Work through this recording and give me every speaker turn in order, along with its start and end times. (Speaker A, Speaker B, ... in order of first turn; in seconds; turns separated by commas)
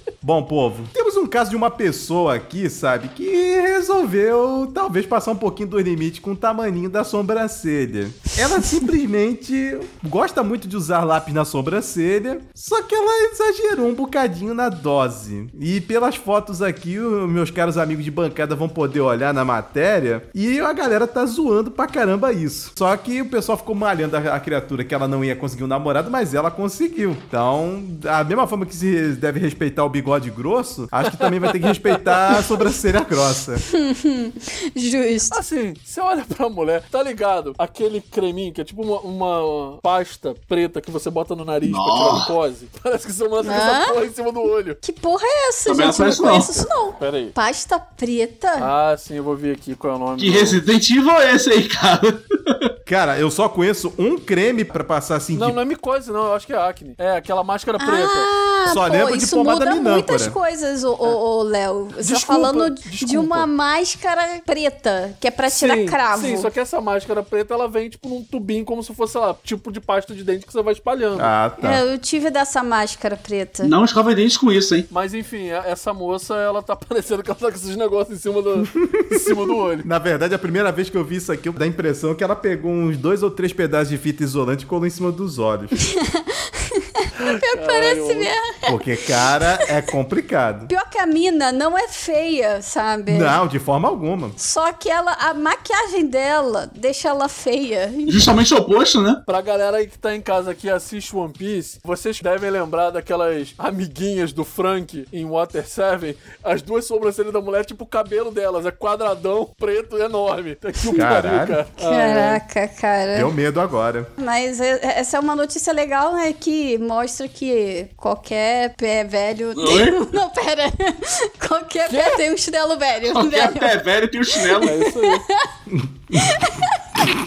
Speaker A: 0.2-33.6, Speaker B: 31.1-32.0, Speaker C: 33.6-35.4, Speaker B: 35.3-44.8, Speaker D: 41.6-42.3, Speaker C: 43.4-44.0, Speaker C: 44.8-48.7, Speaker D: 45.6-46.6, Speaker B: 47.0-47.3, Speaker B: 48.6-50.6, Speaker D: 50.2-52.6, Speaker A: 52.9-55.6, Speaker B: 55.3-58.3, Speaker C: 57.8-66.5, Speaker A: 58.6-60.4, Speaker B: 62.0-63.5, Speaker B: 65.5-71.3, Speaker A: 71.2-71.8, Speaker C: 71.6-73.7, Speaker D: 73.6-74.9, Speaker B: 74.9-79.9, Speaker A: 78.8-79.3, Speaker A: 79.8-85.7, Speaker C: 85.9-88.8, Speaker B: 87.2-88.3, Speaker A: 88.7-90.7, Speaker C: 90.7-93.4, Speaker A: 93.1-94.4, Speaker C: 94.4-98.3, Speaker D: 98.1-99.2, Speaker B: 99.3-112.4, Speaker A: 110.9-111.6, Speaker C: 111.8-113.3, Speaker A: 113.1-114.1, Speaker C: 114.2-123.8, Speaker D: 119.5-120.0, Speaker B: 121.9-122.2, Speaker D: 123.1-124.8, Speaker C: 124.3-125.5, Speaker B: 124.6-125.2, Speaker A: 125.7-126.5, Speaker C: 126.1-127.0